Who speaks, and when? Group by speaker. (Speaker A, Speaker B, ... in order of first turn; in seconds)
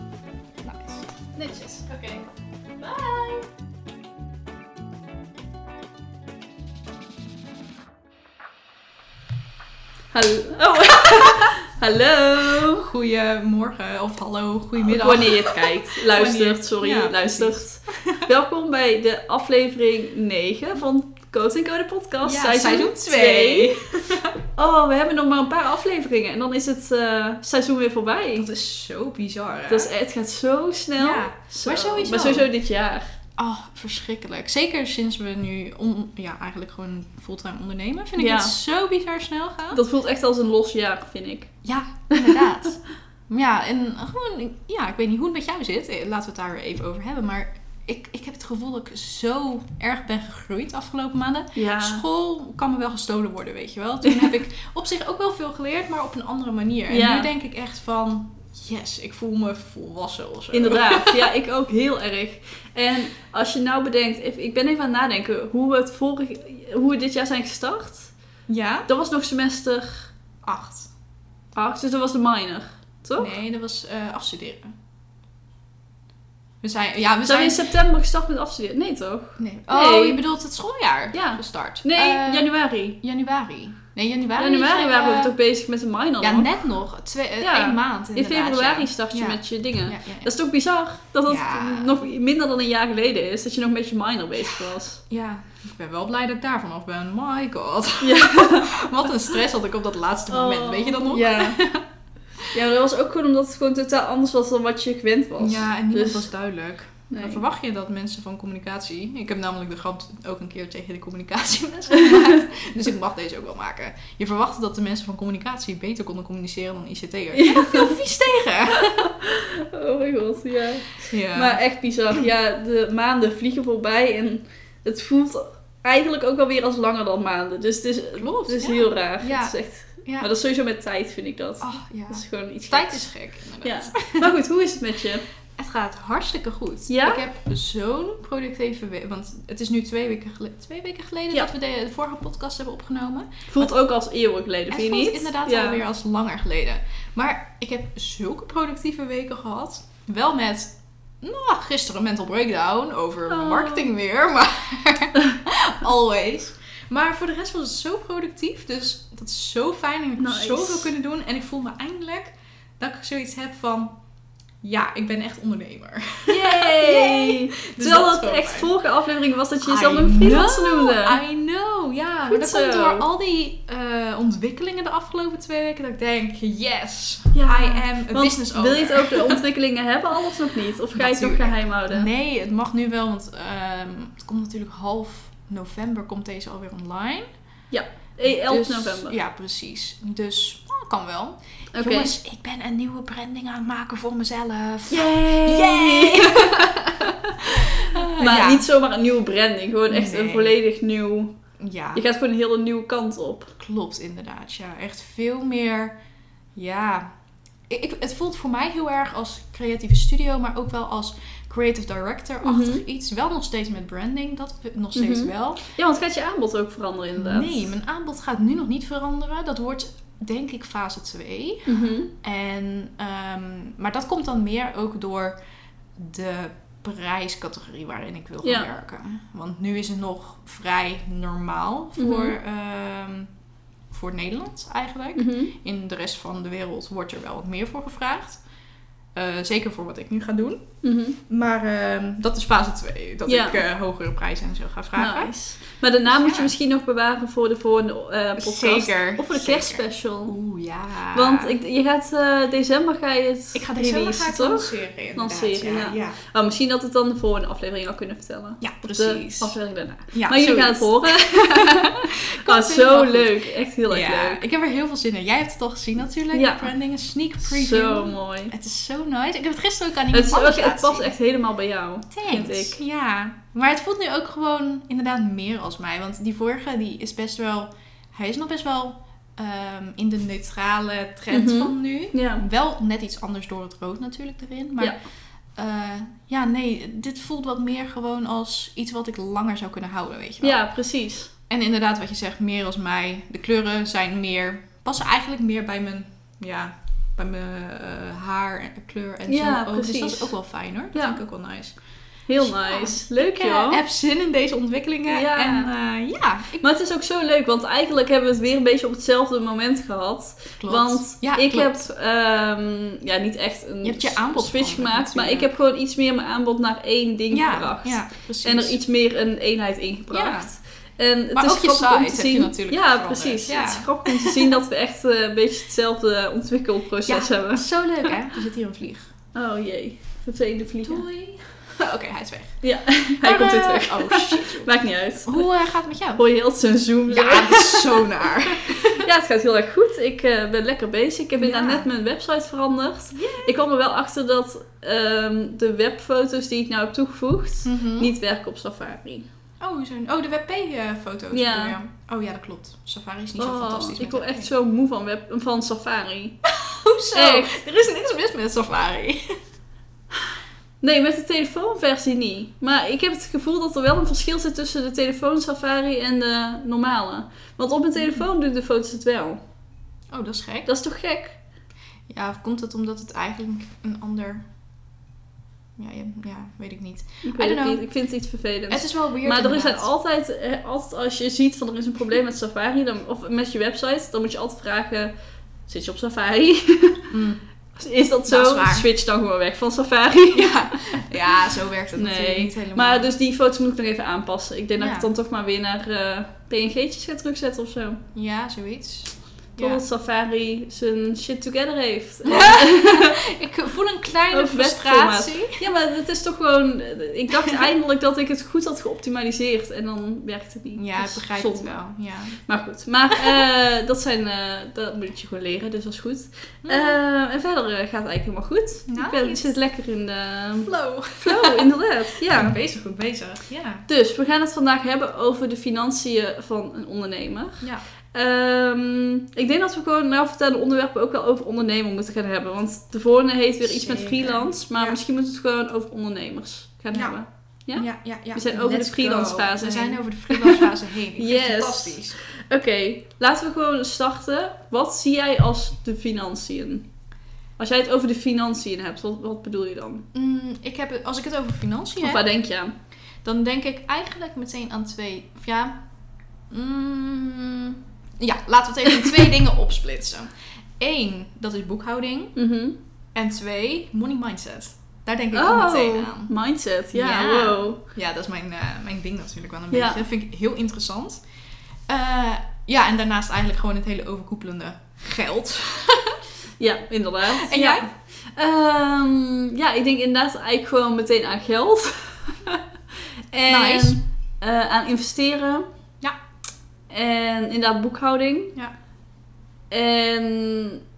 Speaker A: 0.6-1.1, 12.8-18.3, 22.2-24.4, 28.4-29.9, 31.0-32.5, 33.4-39.8, 41.6-42.8, 43.3-61.2, 68.5-68.9, 70.4-70.9, 73.2-74.7, 76.6-77.7, 79.4-85.3, 86.2-90.3, 91.3-92.0, 95.1-101.8, 105.4-119.1, 121.0-121.6, 128.2-130.3, 131.6-134.3, 135.5-143.7, 144.7-163.9, 164.6-168.7, 169.6-179.4, 180.9-187.2, 188.2-198.7, 199.9-200.5, 201.6-202.0, 203.6-205.9, 206.6-207.1, 207.7-215.6, 217.2-225.3, 225.9-233.3, 233.9-238.4, 239.1-245.3, 246.1-246.5, 248.4-251.6, 253.5-256.2, 258.6-259.5, 260.1-271.1, 272.1-284.9, 285.5-290.6, 291.5-301.8, 302.4-306.6, 310.6-311.9, 313.8-315.5, 317.3-318.8, 320.1-320.5, 321.3-324.6, 327.1-329.1, 330.8-336.2, 337.1-339.1, 341.4-341.9, 343.1-343.6, 347.6-348.1, 349.6-354.5, 356.4-359.3, 368.0-368.2, 370.1-370.7, 372.1-374.4, 375.8-377.9, 378.7-379.9, 387.1-387.4, 388.3-388.9, 390.3-393.1, 394.8-395.1, 398.1-399.8, 402.2-405.6, 407.3-407.6, 410.8-412.4, 413.1-413.4, 416.6-417.0, 418.9-419.5, 420.6-423.9, 433.6-435.0, 436.9-437.2, 437.7-442.2, 450.1-452.3, 453.2-455.8, 456.5-462.4, 463.1-466.3, 466.9-471.2, 471.9-476.2, 477.3-477.9, 483.5-484.0
Speaker B: 1.3-2.2, 2.8-3.5, 10.1-12.9, 14.8-23.7, 24.6-28.5, 29.7-33.1, 38.2-38.5, 39.7-41.5, 42.1-42.4, 51.5-52.0, 56.9-57.3, 60.5-68.1, 68.9-70.1, 71.5-73.3, 77.2-80.2, 81.1-83.0, 84.4-86.5, 87.4-95.0, 98.0-99.1, 100.3-101.6, 102.5-106.3, 107.1-107.4, 111.9-112.3, 117.3-118.0, 118.7-133.1, 133.6-135.2, 136.9-137.2, 143.5-145.8, 153.3-153.9, 160.2-160.9, 166.3-171.2, 172.3-173.0, 177.3-182.1, 187.7-189.1, 191.7-192.1, 194.9-201.3, 201.9-203.5, 212.4-212.8, 214.9-217.7, 221.7-222.1, 228.4-228.7, 232.0-232.3, 235.2-235.5, 240.8-241.2, 243.3-243.6, 244.9-250.3, 251.1-264.4, 266.3-266.7, 267.4-268.5, 270.1-272.8, 281.3-282.4, 290.4-291.3, 299.3-300.3, 300.9-301.2, 302.3-303.8, 305.1-305.7, 306.6-328.1, 329.3-331.1, 332.6-335.5, 336.2-349.3, 351.3-351.7, 353.4-356.4, 357.1-357.6, 360.8-369.4, 370.7-371.4, 377.2-385.1, 385.6-387.1, 387.8-391.1, 391.9-398.0, 399.6-403.2, 404.3-411.8, 412.4-422.6, 423.9-446.9, 447.6-450.1, 452.0-452.7, 462.4-462.8, 465.3-467.8, 469.7-470.0, 476.6-482.6, 483.3-485.7, 486.9-488.5, 489.7-490.8